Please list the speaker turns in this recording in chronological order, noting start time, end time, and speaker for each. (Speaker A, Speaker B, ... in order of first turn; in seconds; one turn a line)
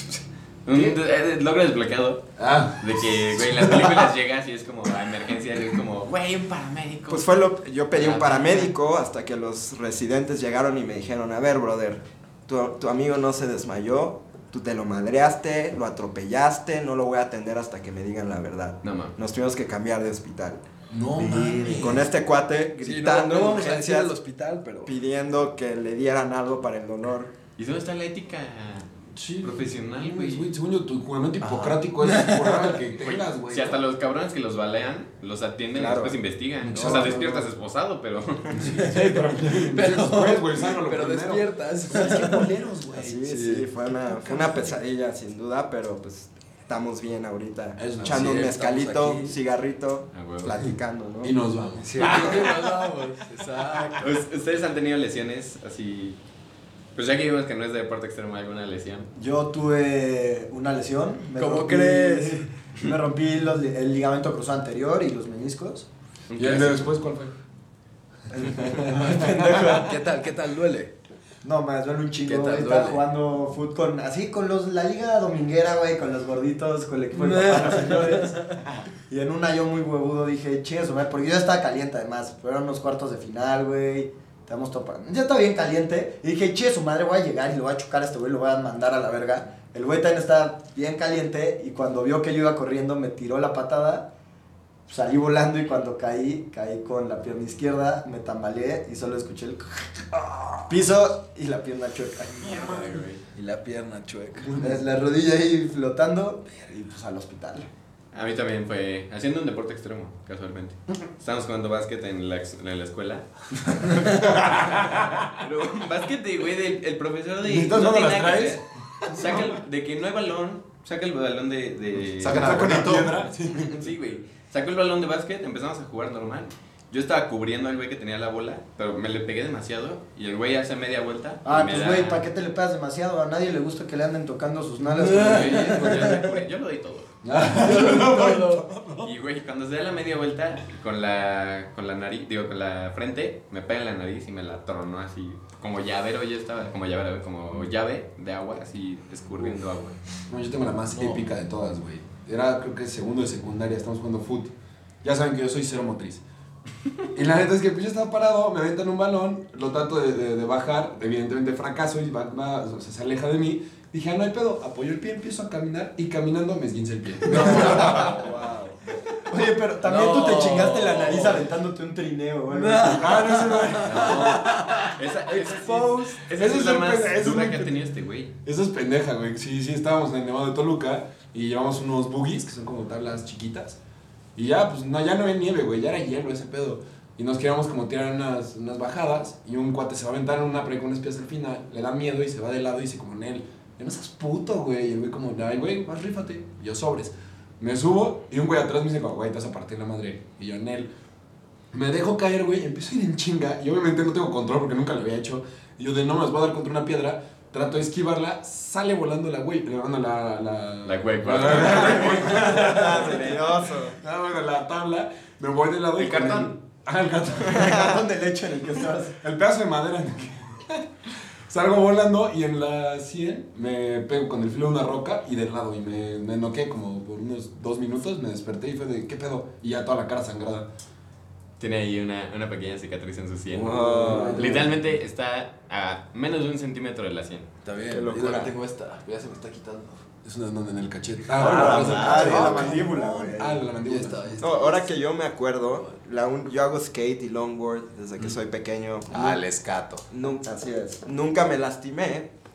Speaker A: 0.7-2.2
Speaker B: 2.4-4.1
Speaker A: 2.8-7.3
Speaker C: 7.1-20.6
Speaker A: 7.9-8.7
Speaker A: 18.8-19.1
Speaker D: 20.9-22.0
Speaker B: 20.9-22.0
Speaker C: 21.8-24.1
Speaker D: 22.8-24.9
Speaker C: 24.9-27.3
Speaker A: 27.6-30.5
Speaker B: 29.1-33.8
Speaker D: 32.0-33.1
Speaker A: 33.0-38.7
Speaker C: 35.7-36.2
Speaker B: 36.6-37.2
Speaker D: 36.6-37.5
Speaker B: 38.5-43.2
Speaker D: 38.7-42.5
Speaker C: 42.9-51.4
Speaker D: 43.2-43.7
Speaker B: 47.8-48.4
Speaker D: 48.0-49.4
Speaker A: 50.1-50.6
Speaker B: 51.2-52.7
Speaker D: 51.8-54.1
Speaker A: 54.0-56.2
Speaker A: 57.0-59.1
Speaker E: 59.1-65.9
Speaker D: 61.4-62.5
Speaker A: 66.3-66.9
Speaker B: 66.4-67.3
Speaker E: 68.3-70.0
Speaker B: 68.6-69.6
Speaker D: 68.9-70.9
Speaker E: 71.4-94.1
Speaker D: 72.2-73.0
Speaker D: 77.1-78.4
Speaker E: 94.9-100.1
Speaker E: 100.7-102.9
Speaker A: 102.4-103.2
Speaker D: 103.3-104.6
Speaker B: 104.4-104.8
Speaker E: 104.6-107.7
Speaker A: 108.1-114.2
Speaker B: 114.1-115.2
Speaker A: 115.3-122.6
Speaker B: 117.4-119.6
Speaker F: 122.2-123.2
Speaker B: 122.2-123.9
Speaker A: 123.5-132.2
Speaker E: 131.4-136.0
Speaker D: 134.8-136.3
Speaker A: 135.1-137.1
Speaker B: 137.2-139.1
Speaker D: 137.3-138.7
Speaker A: 139.0-149.9
Speaker B: 150.3-156.2
Speaker D: 150.9-151.3
Speaker B: 157.1-168.2
Speaker D: 167.2-168.5
Speaker E: 167.4-168.1
Speaker E: 169.3-173.4
Speaker D: 169.8-171.4
Speaker D: 172.5-175.0
Speaker B: 172.8-174.6
Speaker A: 173.8-178.3
Speaker B: 175.3-177.8
Speaker B: 178.4-183.8
Speaker B: 184.4-200.9
Speaker B: 201.7-213.4
Speaker A: 210.8-212.9
Speaker C: 211.8-214.0
Speaker B: 214.0-217.8
Speaker A: 216.0-216.5
Speaker C: 217.4-218.0
Speaker E: 217.5-219.2
Speaker B: 219.2-230.7
Speaker A: 231.6-237.5
Speaker C: 233.5-234.6
Speaker B: 233.9-234.7
Speaker D: 234.0-234.6
Speaker D: 237.6-240.0
Speaker C: 237.9-238.5
Speaker B: 240.2-244.4
Speaker E: 241.4-243.6
Speaker F: 241.4-242.7
Speaker D: 241.4-244.9
Speaker C: 241.5-241.8
Speaker C: 244.4-249.3
Speaker F: 249.1-250.1
Speaker C: 250.1-252.3